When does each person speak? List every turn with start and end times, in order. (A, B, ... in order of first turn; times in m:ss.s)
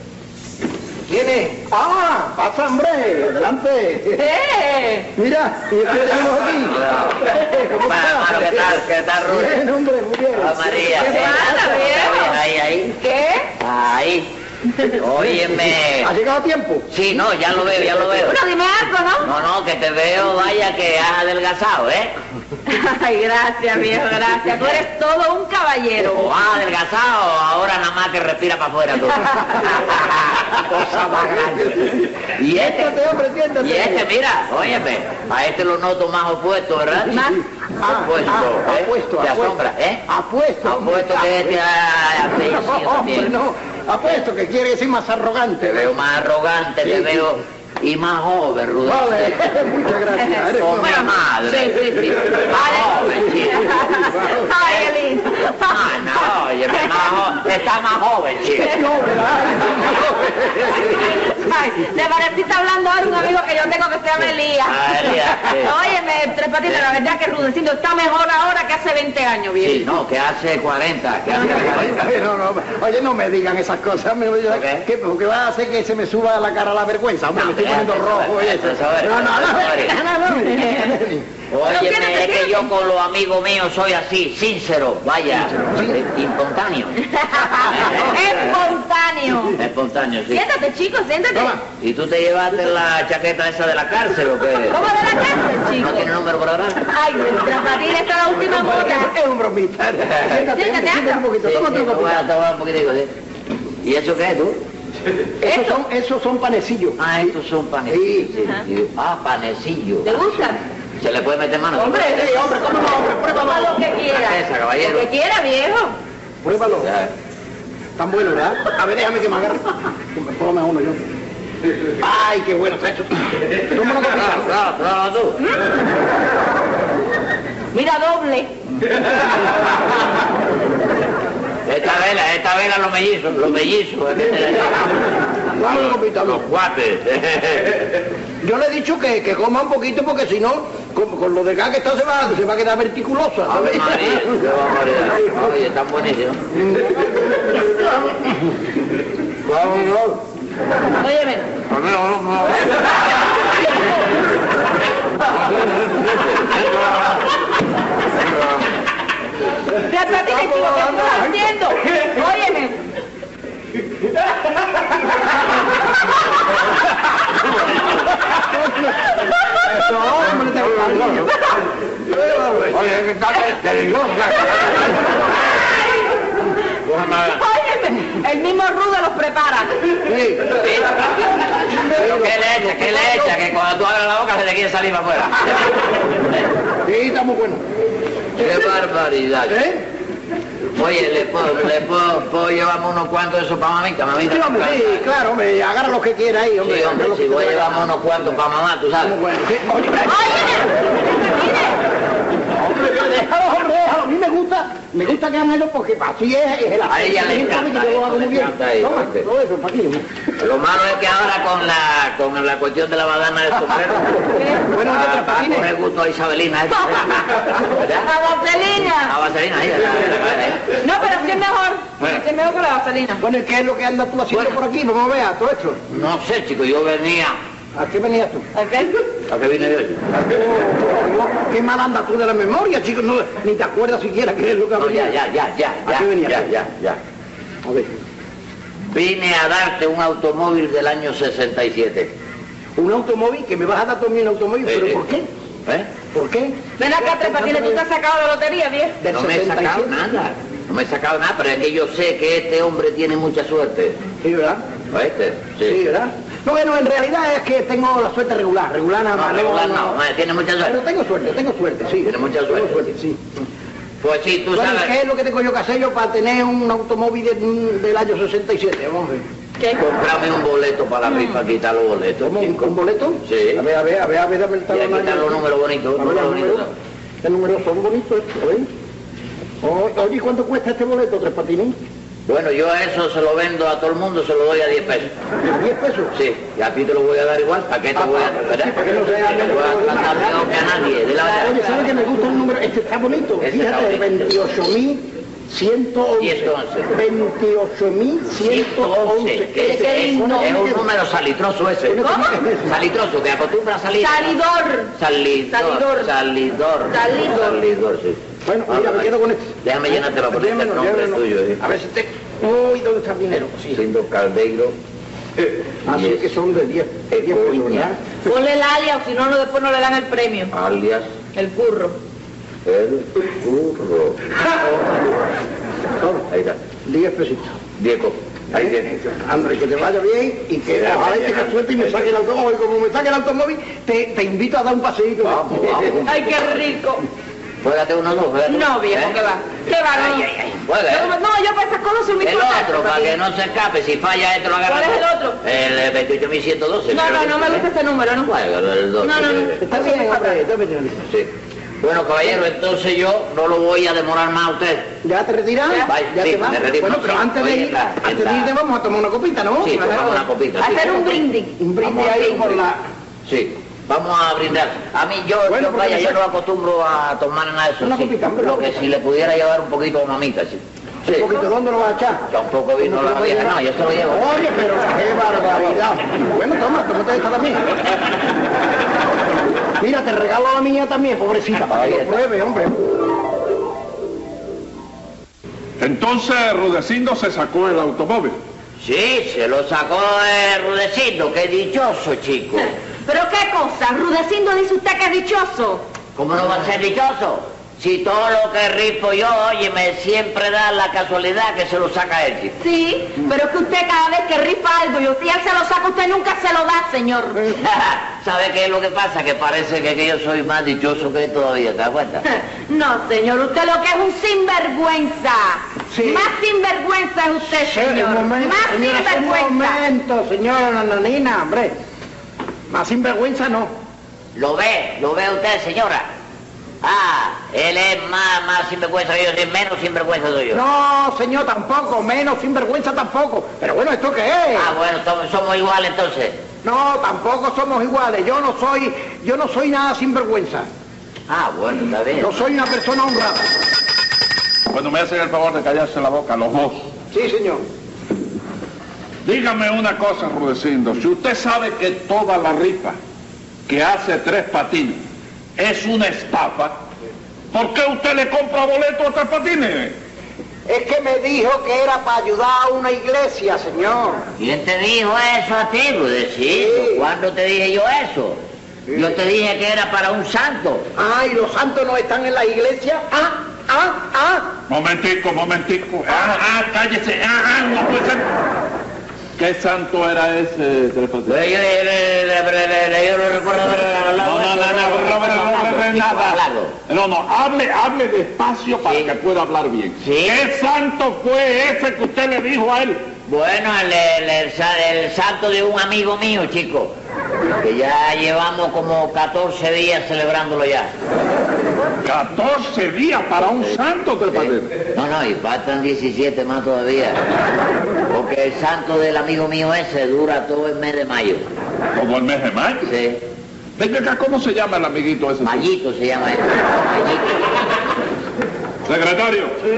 0:01.1-0:04.3 A
0:04.2-0:05.1 B
0:05.1-0:12.1 A
0:06.8-0:09.6 C
0:10.3-0:13.0 C
0:11.0-0:12.4 B
0:13.0-0:13.5 B
0:13.6-0:16.1 C
0:15.2-0:16.9 A
0:16.9-0:18.4 C
0:18.1-0:19.3 B
0:19.2-0:22.1 C
0:22.7-0:26.3 B
0:26.0-0:33.0 C
0:32.5-0:34.1 A
0:33.6-0:40.0 C
0:37.0-0:41.6 A
0:40.6-0:43.3 C
0:42.5-0:45.9 A
0:45.6-0:49.4 C
0:46.8-0:47.3 A
0:48.8-0:51.1 A
0:50.2-0:55.8 B
0:50.6-0:53.9 C
0:53.7-0:54.5 A
0:55.6-0:58.8 C
0:58.6-1:00.9 A
1:01.2-1:10.0 B
1:04.2-1:05.7 C
1:09.6-1:12.2 C
1:11.4-1:21.3 A
1:14.5-1:14.8 C
1:17.3-1:20.0 C
1:20.6-1:20.8 B
1:21.5-1:27.0 C
1:21.6-1:22.7 B
1:25.6-1:26.0 A
1:27.1-1:29.6 B
1:27.7-1:28.4 C
1:27.7-1:28.2 A
1:29.6-1:30.4 C
1:30.3-1:31.6 B
1:31.3-1:31.6 A
1:31.8-1:34.8 C
1:34.7-1:36.1 B
1:35.8-1:36.8 C
1:36.9-1:39.1 B
1:38.4-1:42.3 A
1:40.0-1:40.4 C
1:40.5-1:41.2 B
1:41.4-1:43.1 C
1:43.8-1:44.6 C
1:45.4-1:47.3 A
1:45.4-1:45.8 B
1:47.0-1:50.4 C
1:47.9-1:48.3 A
1:50.0-1:50.6 B
1:51.0-1:52.6 C
1:51.8-1:56.0 B
1:52.6-1:53.8 A
1:54.1-1:55.1 C
1:56.4-1:56.9 A
1:56.8-1:57.1 C
1:58.0-2:01.0 A
2:02.0-2:04.5 A
2:04.1-2:05.4 C
2:07.7-2:08.5 B
2:11.7-2:15.0 C
2:14.2-2:16.4 A
2:15.6-2:17.8 C
2:18.4-2:24.3 A
2:23.5-2:26.5 C
2:26.5-2:27.8 A
2:29.5-2:30.2 C
2:31.0-2:31.6 B
2:31.8-2:32.6 C
2:39.8-2:42.8 B
2:40.1-2:41.5 A
2:48.3-2:51.3 A
2:52.0-2:53.5 A
2:52.8-2:54.6 C
2:56.8-2:57.4 C
2:57.3-2:59.8 B
3:00.0-3:00.6 A
3:00.6-3:05.7 C
3:01.7-3:03.4 A
3:06.8-3:07.6 A
3:08.4-3:09.6 C
3:09.5-3:09.8 A
3:10.7-3:15.0 C
3:14.2-3:17.9 A
3:16.6-3:19.2 C
3:19.0-3:20.6 A
3:20.0-3:21.8 B
3:22.5-3:30.1 A
3:26.8-3:29.3 C
3:30.4-3:38.1 C
3:34.4-3:34.6 B
3:34.6-3:35.7 A
3:36.7-3:39.1 B
3:39.0-3:40.7 C
3:40.8-3:43.2 B
3:43.2-3:45.8 A
3:44.3-3:44.6 C
3:45.9-3:47.4 C
3:47.7-3:48.5 A
3:48.5-3:49.0 B
3:49.3-3:50.2 C
3:50.2-3:55.1 A
3:54.8-3:57.0 C
3:55.8-3:56.5 A
3:57.6-3:58.0 A
3:58.9-4:02.1 C
4:02.8-4:05.3 A
4:04.6-4:05.0 C
4:06.1-4:07.8 A
4:06.8-4:09.0 B
4:09.0-4:10.0 A
4:09.1-4:14.0 C
4:14.2-4:14.6 A
4:14.9-4:15.8 C
4:15.6-4:20.0 A
4:19.1-4:20.8 C
4:20.6-4:23.3 A
4:22.0-4:22.9 C
4:24.0-4:24.9 C
4:24.5-4:29.2 A
4:29.8-4:33.6 C
4:32.2-4:35.4 A
4:34.7-4:36.7 C
4:36.0-4:36.7 A
4:37.2-4:38.7 A
4:39.6-4:41.8 A
4:42.3-4:45.1 C
4:45.4-4:46.1 A
4:46.1-4:51.8 C
4:47.9-4:50.4 A
4:51.2-5:00.8 A
4:53.4-4:54.3 C
4:56.2-4:56.9 C
4:58.4-5:04.4 C
4:59.6-5:00.7 B
5:01.8-5:02.8 A
5:02.0-5:02.3 B
5:04.0-5:04.9 B
5:04.9-5:11.6 C
5:05.5-5:06.1 B
5:06.9-5:07.6 B
5:08.4-5:13.8 A
5:13.7-5:14.8 C
5:15.8-5:18.0 A
5:15.9-5:16.3 C
5:17.1-5:17.9 C
5:18.2-5:20.5 B
5:20.5-5:21.1 C
5:21.3-5:22.0 B
5:22.6-5:24.2 C
5:26.0-5:26.2 A
5:26.3-5:26.6 C
5:26.8-5:27.6 A
5:27.8-5:28.8 C
5:28.5-5:36.2 A
5:30.8-5:31.5 C
5:35.2-5:36.6 C
5:36.0-5:37.0 B
5:37.6-5:39.2 C
5:38.5-5:40.3 B
5:39.9-5:41.1 C
5:40.9-5:43.2 B
5:42.2-5:47.7 C
5:44.6-5:45.4 B
5:46.9-5:48.3 B
5:48.2-5:49.6 C
5:49.0-5:50.4 B
5:49.6-5:51.1 A
5:51.0-5:54.9 C
5:55.0-6:00.2 A
5:55.8-5:58.5 C
5:59.6-6:01.2 C
6:00.6-6:01.6 B
6:01.6-6:02.8 A
6:01.8-6:02.6 C
6:03.2-6:11.3 C
6:05.5-6:06.2 A
6:07.8-6:08.8 A
6:11.1-6:12.2 A
6:12.3-6:14.3 C
6:12.8-6:13.6 A
6:14.1-6:17.7 A
6:19.8-6:22.9 A
6:21.6-6:22.2 C
6:25.8-6:28.4 D
6:28.8-6:32.7 C
6:33.0-6:35.8 B
6:36.2-6:42.6 C
6:42.6-6:47.5 B
6:47.5-6:52.2 C
6:52.3-6:59.8 B
6:55.9-6:56.3 A
6:57.5-7:01.7 A
7:02.7-7:03.7 A
7:04.3-7:06.1 C
7:06.8-7:10.6 C
7:10.5-7:14.7 A
7:14.5-7:16.4 C
7:16.6-7:20.7 A
7:21.3-7:22.4 C
7:22.2-7:23.5 A
7:24.7-7:26.8 D
7:27.1-7:27.6 A
7:29.2-7:33.0 D
7:33.7-7:35.0 D
7:35.6-7:36.8 D
7:37.5-7:40.0 D
7:40.7-7:44.2 A
7:44.4-7:50.9 C
7:46.5-7:47.1 A
7:51.0-7:54.5 A
7:54.7-7:58.3 D
7:59.4-8:01.4 D
8:01.2-8:06.7 C
8:04.2-8:13.0 D
8:08.8-8:09.1 C
8:10.0-8:10.4 C
8:13.3-8:17.0 C
8:17.6-8:20.9 C
8:22.0-8:24.7 D
8:24.3-8:27.2 C
8:28.1-8:31.5 C
8:31.9-8:32.9 D
8:32.8-8:33.2 C
8:33.8-8:35.7 D
8:35.4-8:37.5 C
8:38.8-8:39.6 D